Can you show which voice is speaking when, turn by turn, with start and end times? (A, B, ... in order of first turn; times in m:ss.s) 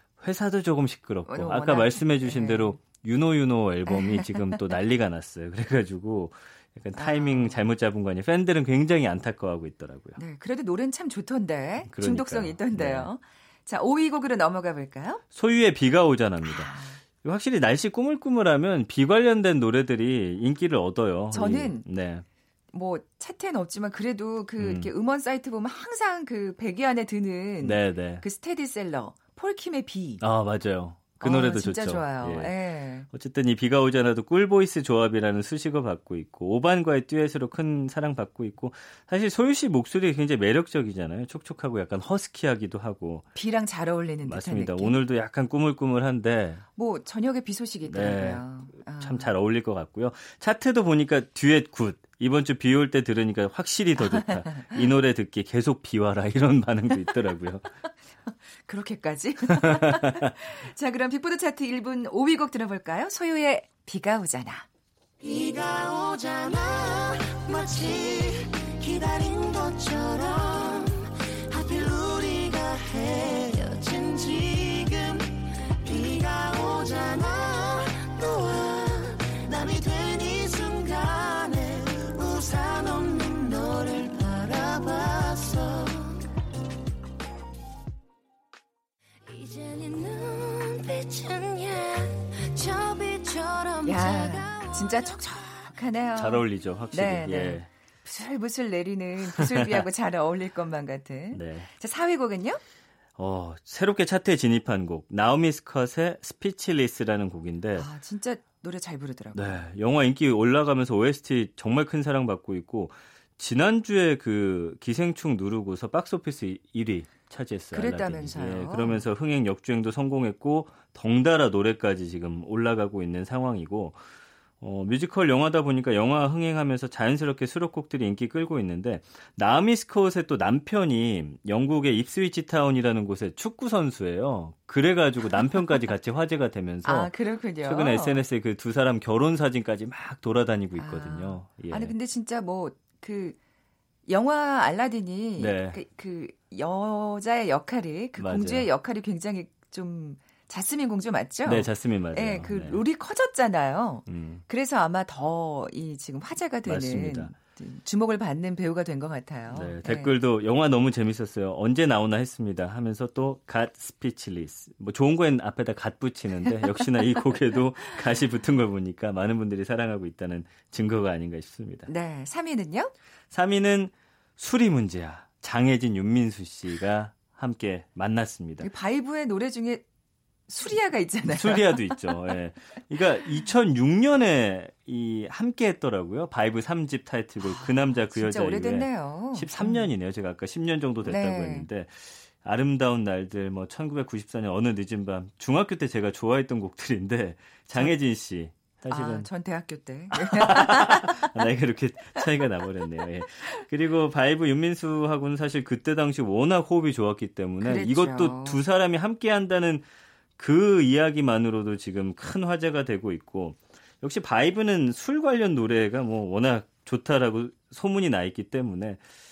0:00.2-0:10.2 A
0:01.3-0:02.8 B
0:03.9-0:04.3 B
0:06.9-0:07.6 B
0:10.2-0:15.2 B
0:11.8-0:13.1 A
0:15.3-0:22.2 A
0:16.4-0:17.0 B
0:21.3-0:21.8 B
0:22.7-0:30.2 B
0:24.6-0:24.9 A
0:27.6-0:28.2 A
0:30.2-0:32.5 A
0:31.2-0:33.1 B
0:33.1-0:43.3 A
0:43.4-0:45.0 B
0:44.3-0:46.6 A
0:46.8-0:49.3 B
0:47.8-0:57.7 A
0:54.0-0:54.8 B
0:58.7-1:04.7 B
0:59.6-1:00.2 A
1:05.2-1:26.2 C
1:29.2-1:35.3 C
1:33.8-1:42.6 B
1:36.2-1:37.7 A
1:39.4-1:39.8 A
1:41.3-1:41.7 A
1:43.2-1:47.9 A
1:47.8-1:49.6 B
1:49.4-2:04.0 A
1:57.7-1:59.0 B
2:04.6-2:17.1 A
2:16.8-2:18.2 B
2:17.6-2:21.9 A
2:20.8-2:23.4 B
2:24.1-2:40.1 B
2:25.4-2:25.8 A
2:28.2-2:28.7 A
2:31.4-2:32.8 A
2:34.1-2:34.4 A
2:36.6-2:37.4 A
2:39.5-2:51.9 A
2:51.9-2:52.9 B
2:53.3-2:58.7 A
2:58.6-2:59.8 B
3:00.5-3:02.0 B
3:01.3-3:19.3 A
3:07.4-3:09.8 B
3:11.0-3:11.7 B
3:18.9-3:21.3 B
3:20.1-3:29.8 A
3:27.6-3:28.6 B
3:30.4-3:39.0 A